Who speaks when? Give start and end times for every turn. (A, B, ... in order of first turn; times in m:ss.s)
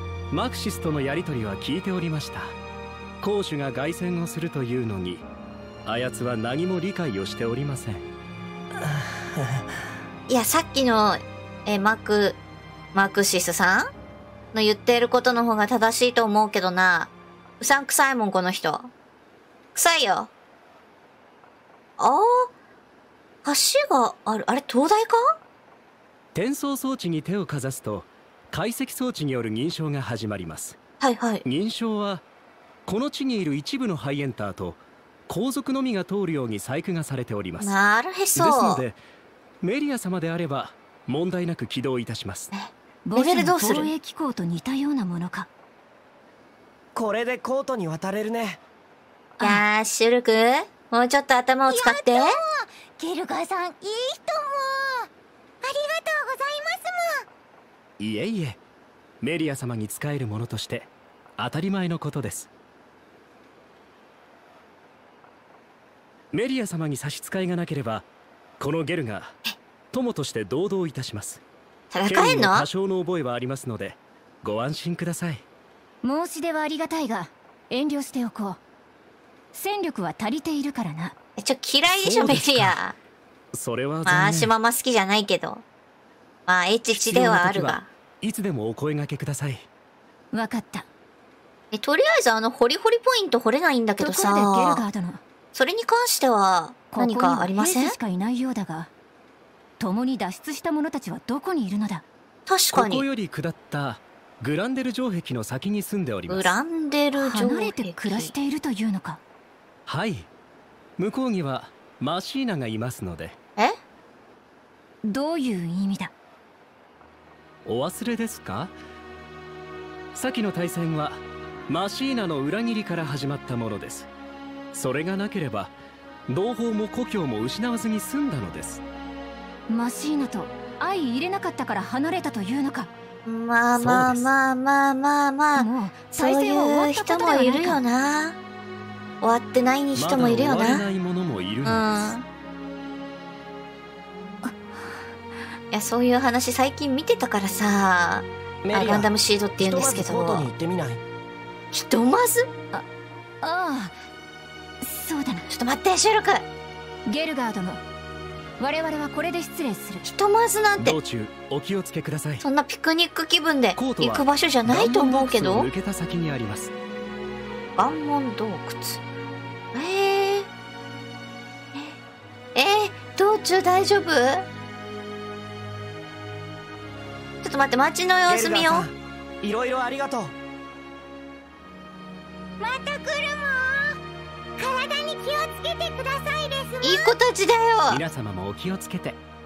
0:00.3-0:02.6 A
0:03.2-0:05.2 A
0:05.9-0:08.0 A
0:08.8-0:09.6 B
0:10.3-0:12.4 C
0:12.9-0:13.9 C
0:14.5-0:18.9 C
0:19.8-0:20.3 C
0:22.0-0:22.5 C
0:23.4-0:25.4 C
0:26.4-0:30.8 A
0:31.0-0:31.4 C
0:31.4-0:32.2 A
0:32.9-0:37.8 A
0:37.6-0:38.8 C
0:38.4-0:39.0 A
0:39.6-0:42.5 A
0:42.5-0:43.9 C
0:43.0-0:45.5 D
0:47.0-0:48.6 B
0:49.4-0:52.4 C
0:51.7-0:55.1 E
0:55.6-0:57.3 E
0:58.0-0:58.6 A
0:59.2-1:02.5 A
1:06.3-1:08.1 A
1:08.6-1:09.4 A
1:09.9-1:11.4 A
1:11.9-1:12.7 C
1:12.1-1:15.4 A
1:16.0-1:18.6 D
1:19.5-1:21.2 D
1:21.4-1:23.0 C
1:22.0-1:22.8 A
1:23.5-1:24.5 A
1:24.1-1:25.6 C
1:26.5-1:27.9 C
1:26.9-1:29.7 A
1:30.3-1:30.9 D
1:31.7-1:34.8 C
1:34.0-1:35.2 D
1:35.5-1:38.0 C
1:36.9-1:38.9 D
1:39.8-1:42.0 D
1:42.5-1:43.0 C
1:42.7-1:46.5 A
1:46.3-1:48.4 C
1:47.2-1:49.2 D
1:49.9-1:50.3 A
1:51.0-1:53.4 A
1:55.0-1:56.1 D
1:57.6-1:58.7 A
2:00.2-2:04.1 A
2:04.7-2:05.7 A
2:06.3-2:08.8 A
2:09.7-2:12.9 D
2:13.2-2:18.4 C
2:13.8-2:14.3 A
2:15.6-2:17.8 D
2:19.2-2:20.8 C
2:19.9-2:21.8 A
2:21.6-2:22.3 C
2:24.4-2:25.0 D
2:25.7-2:30.5 C
2:28.6-2:31.0 B
2:31.7-2:32.5 C
2:33.4-2:34.0 D
2:34.8-2:35.4 D
2:35.5-2:36.5 C
2:37.1-2:37.8 D
2:38.6-2:40.0 D
2:40.0-2:41.0 C
2:40.8-2:42.4 A
2:42.4-2:45.7 C
2:43.8-2:46.7 A
2:47.8-2:49.0 C
2:49.7-2:50.5 C
2:52.6-2:54.5 C
2:57.4-2:58.9 C
2:58.3-3:00.4 B
3:02.6-3:04.0 E
3:04.6-3:07.2 E
3:06.8-3:08.0 C
3:07.9-3:09.2 A